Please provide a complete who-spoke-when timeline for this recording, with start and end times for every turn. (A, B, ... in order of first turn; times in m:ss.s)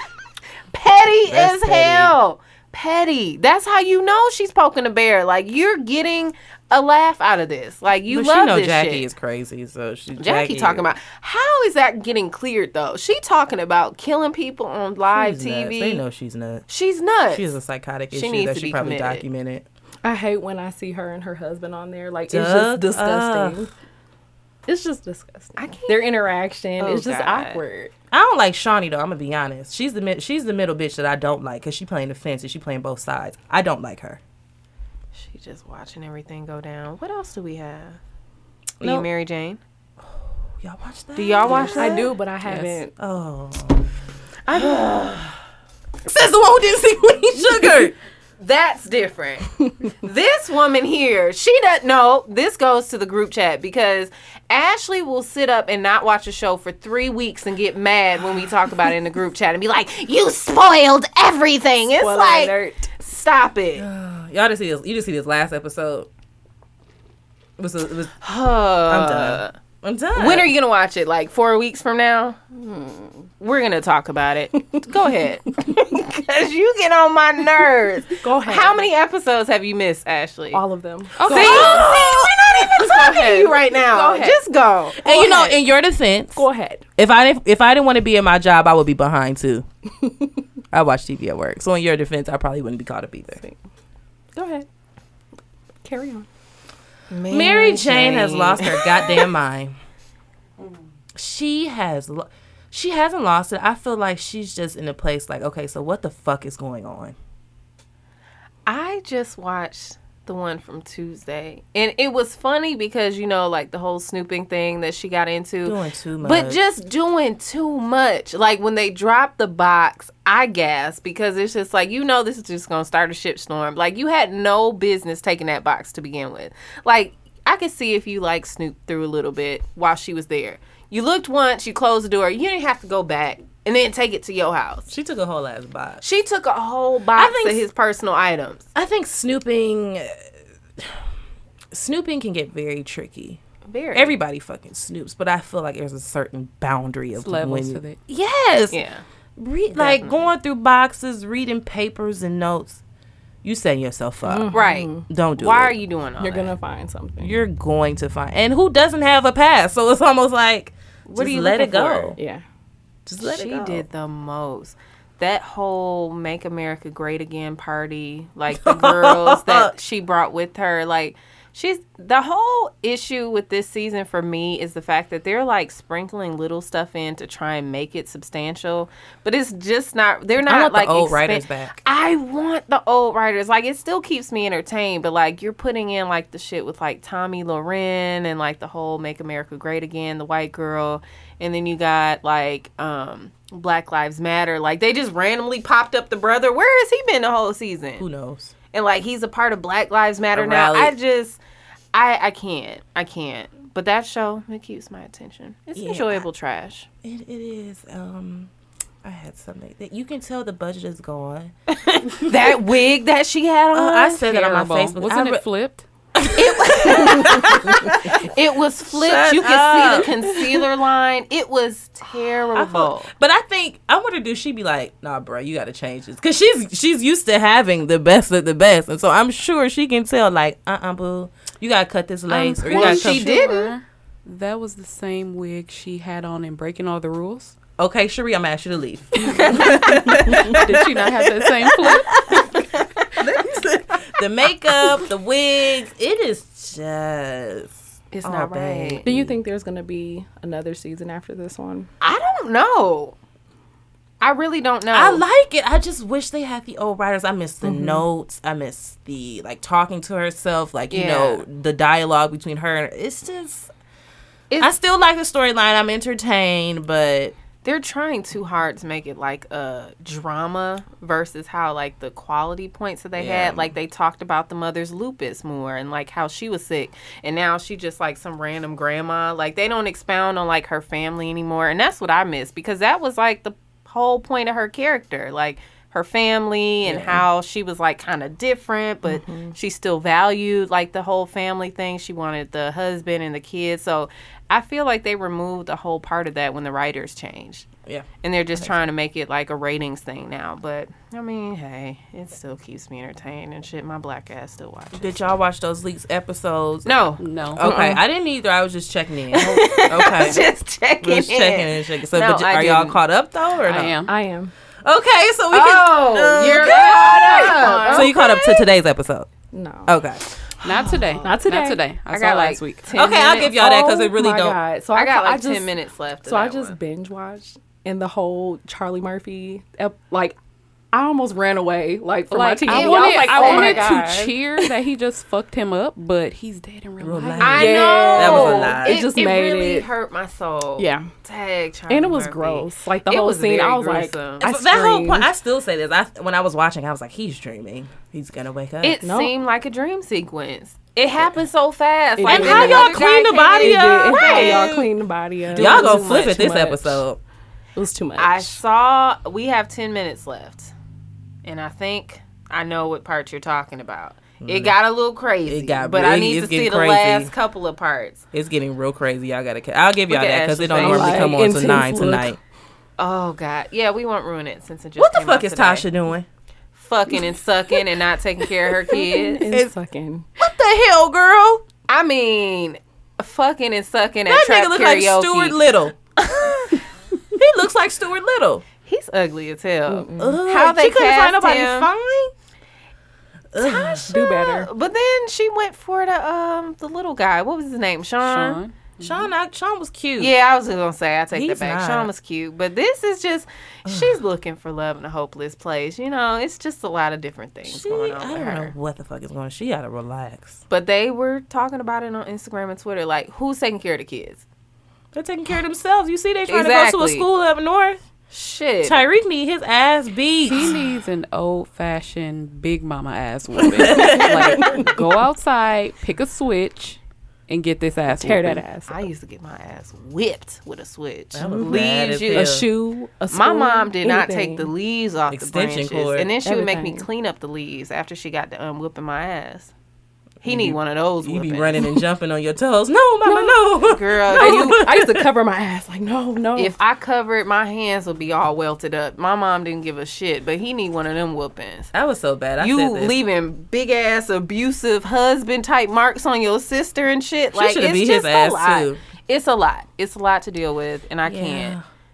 0:00.7-0:09.1 A
0:01.3-0:02.1 B
0:08.1-0:10.9 B
0:10.2-0:16.0 A
0:15.1-0:16.7 B
0:16.7-0:17.6 A
0:17.3-0:19.6 B
0:18.1-0:19.2 A
0:20.0-0:23.7 C
0:22.3-0:23.6 B
0:24.6-0:27.9 C
0:25.6-0:26.1 A
0:26.8-0:27.6 A
0:28.1-0:34.2 B
0:35.1-0:38.0 A
0:38.8-0:39.1 B
0:38.8-0:39.6 A
0:40.1-0:42.1 B
0:41.2-0:42.1 A
0:41.7-0:42.9 C
0:42.4-0:42.8 D
0:43.0-0:43.9 B
0:44.5-0:45.4 B
0:46.0-0:47.9 B
0:48.4-1:03.8 A
1:02.0-1:02.9 C
1:03.8-1:06.1 B
1:07.6-1:08.1 B
1:08.2-1:09.5 A
1:08.9-1:10.5 B
1:10.1-1:12.4 A
1:12.5-1:13.3 C
1:13.4-1:20.6 A
1:18.2-1:18.9 C
1:20.5-1:24.4 C
1:21.2-1:25.6 A
1:21.3-1:22.2 B
1:25.0-1:26.4 B
1:26.3-1:26.8 C
1:27.0-1:29.6 B
1:30.7-1:33.4 B
1:34.4-1:34.6 C
1:35.8-1:36.3 C
1:37.1-1:39.3 A
1:37.3-1:39.8 B
1:41.2-1:47.1 B
1:48.6-2:14.9 A
1:55.6-1:56.6 B
2:14.9-2:16.0 B
2:16.0-2:18.7 A
2:17.1-2:17.6 B
2:18.7-2:20.2 B
2:21.7-2:23.4 B
2:23.6-2:24.1 A
2:23.9-2:28.8 B
2:27.2-2:28.0 D
2:28.7-2:29.0 A
2:29.4-2:32.8 B
2:29.7-2:30.3 A
2:33.4-2:34.5 B
2:34.2-2:35.0 C
2:34.5-2:36.5 A
2:35.1-2:35.7 B
2:36.2-2:37.4 C
2:37.2-2:42.2 B
2:41.1-2:42.2 A
2:42.2-2:42.4 C
2:43.0-2:43.8 B
2:43.2-3:18.0 A
2:48.6-2:49.7 B
3:00.4-3:01.8 B
3:18.0-3:18.5 B
3:18.7-3:21.4 A
3:20.3-3:20.9 B
3:21.9-3:26.9 A
3:25.7-3:26.3 B
3:27.0-3:28.5 B
3:29.0-3:31.5 B
3:31.8-3:34.5 A
3:33.7-3:35.4 B
3:34.3-3:35.8 D
3:36.2-3:38.3 B
3:36.4-3:43.1 A
3:38.9-3:40.6 B
3:42.5-3:53.3 B
3:52.3-3:57.6 D
3:52.7-3:53.7 A
3:57.8-4:09.4 B
3:59.3-4:02.6 D
4:08.1-4:09.0 A
4:09.0-4:11.9 C
4:12.0-4:13.1 A
4:14.2-4:15.2 A
4:14.9-4:23.7 B
4:17.6-4:18.0 C
4:20.9-4:21.4 A
4:24.6-4:27.3 B
4:27.6-4:57.7 A
4:33.1-4:33.7 B
4:46.8-4:47.2 B
4:57.8-4:58.8 B
4:58.2-5:05.2 A
5:05.0-5:10.4 B
5:06.8-5:07.7 A
5:07.2-5:07.7 D
5:07.6-5:08.0 C
5:09.3-5:13.0 A
5:11.0-5:14.1 B
5:13.6-5:14.1 D
5:14.0-5:14.5 C
5:14.8-5:19.3 B
5:15.5-5:18.6 A
5:16.4-5:18.2 C
5:19.5-5:19.9 C
5:19.8-5:20.2 B
5:20.6-5:21.4 A
5:20.6-5:22.9 D
5:21.2-5:21.8 C
5:22.1-5:23.5 A
5:22.9-5:24.6 B
5:23.2-5:30.4 C
5:24.9-5:26.7 A
5:30.9-5:34.4 C
5:32.3-5:38.0 D
5:32.6-5:34.3 A
5:37.0-5:39.0 B
5:37.4-5:44.5 A
5:37.5-5:39.9 C
5:40.8-5:41.1 C
5:41.9-5:45.3 C
5:44.4-5:49.0 B
5:48.8-5:54.7 A
5:49.0-5:49.3 C
5:52.2-5:57.0 C
5:52.3-5:54.9 B
5:55.5-5:56.4 A
5:55.5-5:57.2 B
5:57.8-5:58.6 C
5:58.2-6:00.7 A
6:01.4-6:08.2 A
6:04.4-6:04.7 B
6:05.4-6:07.3 B
6:08.3-6:12.4 B
6:10.1-6:11.5 A
6:10.7-6:12.4 C
6:13.0-6:15.9 A
6:15.0-6:16.3 B
6:16.7-6:19.5 A
6:18.9-6:20.3 C
6:20.4-6:21.6 B
6:21.9-6:25.6 A
6:24.3-6:26.0 B
6:26.2-6:26.8 A
6:27.3-6:28.6 B
6:28.8-6:31.9 A
6:29.9-6:30.4 C
6:30.2-6:32.3 B
6:33.5-6:34.1 B
6:33.6-6:38.6 A
6:34.1-6:34.7 C
6:38.2-6:39.1 D
6:39.0-6:40.3 B
6:40.2-6:48.7 A
6:41.3-6:42.1 B
6:43.8-6:44.2 B
6:47.7-6:50.6 B
6:50.7-6:54.4 A
6:55.1-6:58.0 B
6:56.5-6:57.2 A
6:58.3-6:59.0 A
6:58.8-7:00.7 B
7:00.5-7:08.6 D
7:03.8-7:05.0 B
7:03.9-7:04.9 C
7:08.1-7:09.0 C
7:08.9-7:12.6 A
7:11.3-7:12.7 B
7:11.4-7:14.7 C
7:13.3-7:19.7 A
7:15.3-7:16.3 B
7:16.4-7:17.1 C
7:20.4-7:25.3 B
7:20.4-7:21.8 A
7:23.2-7:26.7 C
7:23.8-7:24.8 A
7:26.6-7:31.9 A
7:31.9-7:33.2 B
7:32.6-7:41.8 A
7:37.5-7:39.0 B
7:41.2-7:41.8 B